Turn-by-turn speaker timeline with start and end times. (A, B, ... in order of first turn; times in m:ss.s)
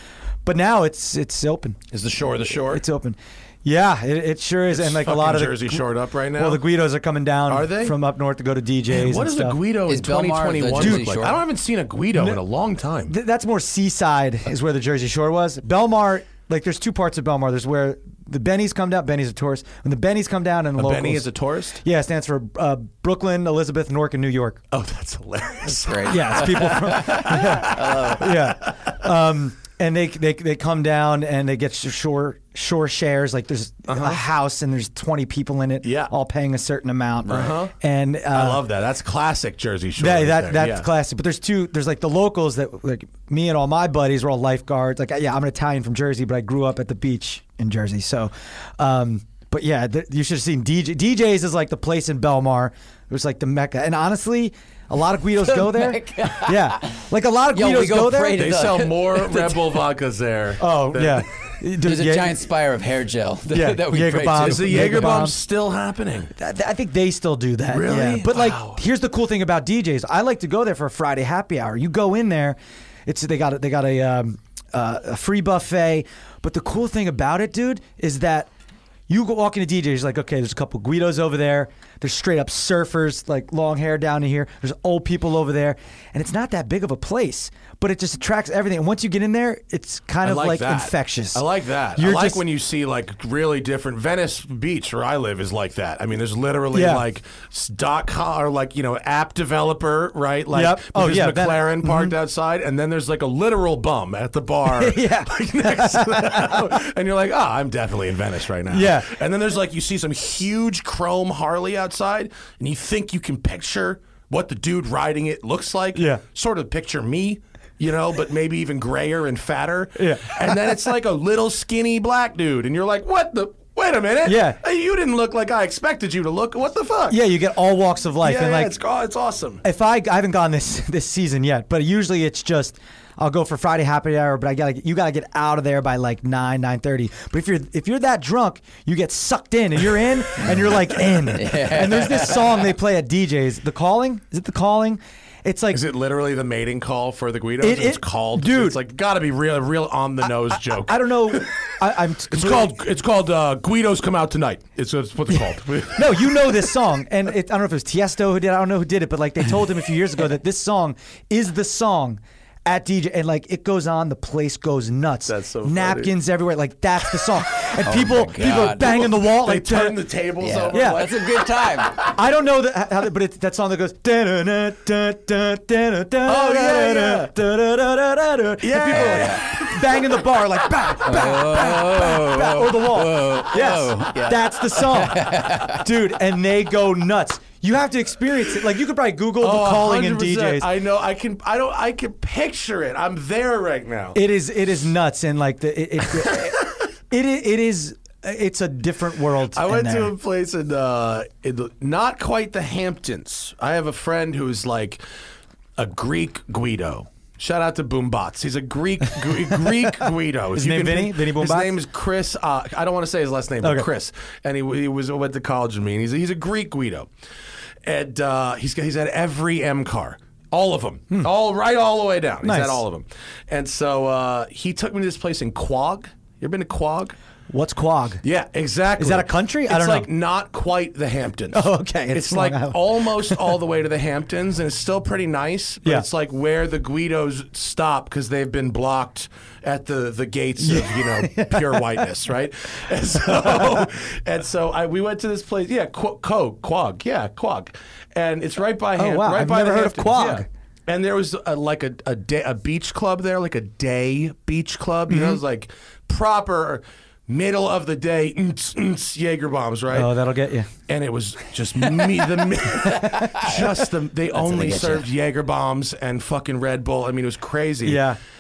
0:00.4-0:01.8 A
0:01.9-0:02.8 B
0:02.6-0:09.6 A
0:04.7-0:06.6 B
0:07.5-0:08.0 B
0:08.9-0:13.2 B
0:09.9-0:11.4 C
0:10.8-0:11.2 A
0:12.2-0:12.4 A
0:13.1-0:21.3 A
0:20.8-0:21.8 B
0:21.8-0:24.6 A
0:24.7-0:29.0 B
0:25.8-0:28.3 C
0:26.0-0:38.6 A
0:33.9-0:34.2 B
0:35.8-0:36.1 B
0:37.3-0:37.8 B
0:38.3-0:40.9 B
0:40.0-0:58.5 A
0:55.5-0:57.0 C
0:57.5-0:59.6 C
0:58.4-1:01.2 B
1:00.6-1:02.4 A
1:01.8-1:05.2 C
1:03.5-1:05.4 A
1:04.4-1:06.3 B
1:06.4-1:18.5 A
1:07.7-1:08.8 B
1:19.1-1:31.4 A
1:30.2-2:07.2 B
1:32.0-1:32.4 A
1:36.7-1:37.0 A
1:40.5-1:42.1 A
1:44.7-1:46.7 A
1:48.7-1:49.1 A
1:56.0-1:56.2 A
2:00.0-2:00.7 A
2:04.2-2:04.6 A
2:07.1-2:08.8 A
2:08.2-2:09.6 B
2:09.6-2:25.8 A
2:21.3-2:22.5 C
2:25.7-2:31.6 B
2:27.6-2:28.8 A
2:30.2-2:32.8 A
2:32.3-2:36.6 B
2:35.3-2:50.0 A
2:45.3-2:46.2 B
2:47.8-2:49.1 C
2:48.4-2:51.6 B
2:50.4-2:52.1 C
2:50.7-2:51.0 A
2:52.0-3:10.7 A
2:56.2-2:57.4 B
2:58.6-2:59.8 B
2:58.9-2:59.4 C
3:01.0-3:05.9 C
3:09.4-3:14.2 B
3:14.2-3:20.1 A
3:19.5-3:25.0 B
3:25.8-3:37.1 B
3:29.5-3:31.7 A
3:33.6-3:33.9 A
3:37.8-3:47.2 B
3:42.4-3:42.8 A
3:47.5-3:48.2 A
3:48.2-4:20.1 B
3:49.0-3:50.1 A
3:51.5-3:53.6 A
4:00.6-4:02.1 A
4:03.2-4:03.8 A
4:09.0-4:10.5 A
4:15.1-4:15.4 A
4:19.9-4:20.7 A
4:20.9-4:28.0 B
4:22.8-4:23.7 A
4:24.4-4:25.0 C
4:27.8-4:28.2 A